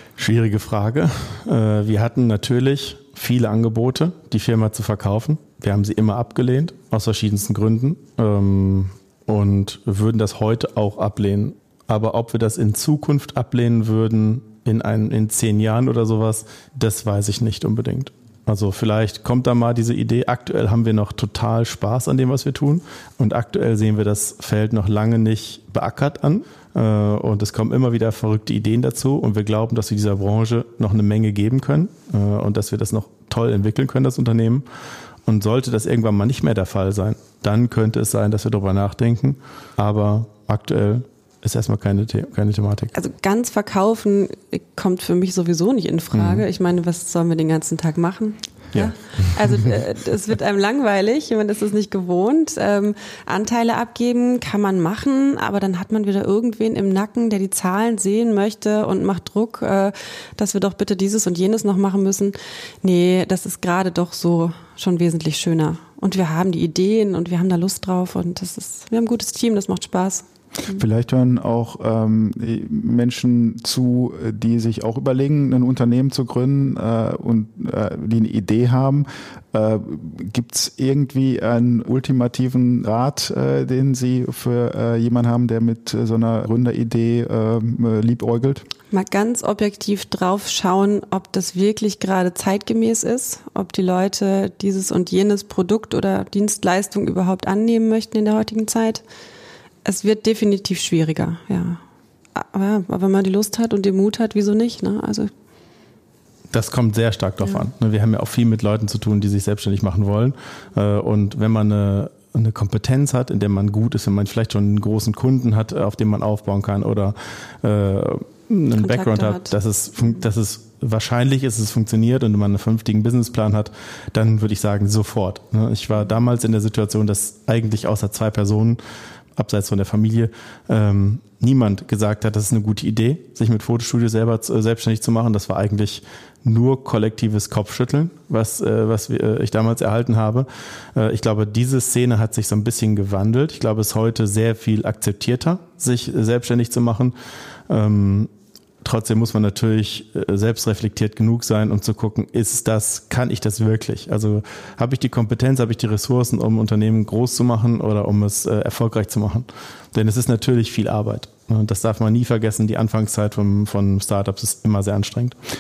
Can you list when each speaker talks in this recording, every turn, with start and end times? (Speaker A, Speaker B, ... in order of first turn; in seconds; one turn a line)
Speaker A: 0.2-34.6
Speaker A: 35.3-42.9
Speaker B: 42.9-70.8
Speaker C: 70.7-88.6
Speaker B: 88.9-99.0
Speaker B: 99.8-101.8
Speaker B: 102.3-105.3
Speaker A: 106.5-128.8
Speaker B: 118.8-119.5
Speaker A: 129.3-147.1
Speaker A: 147.7-148.3
Speaker A: 148.8-165.3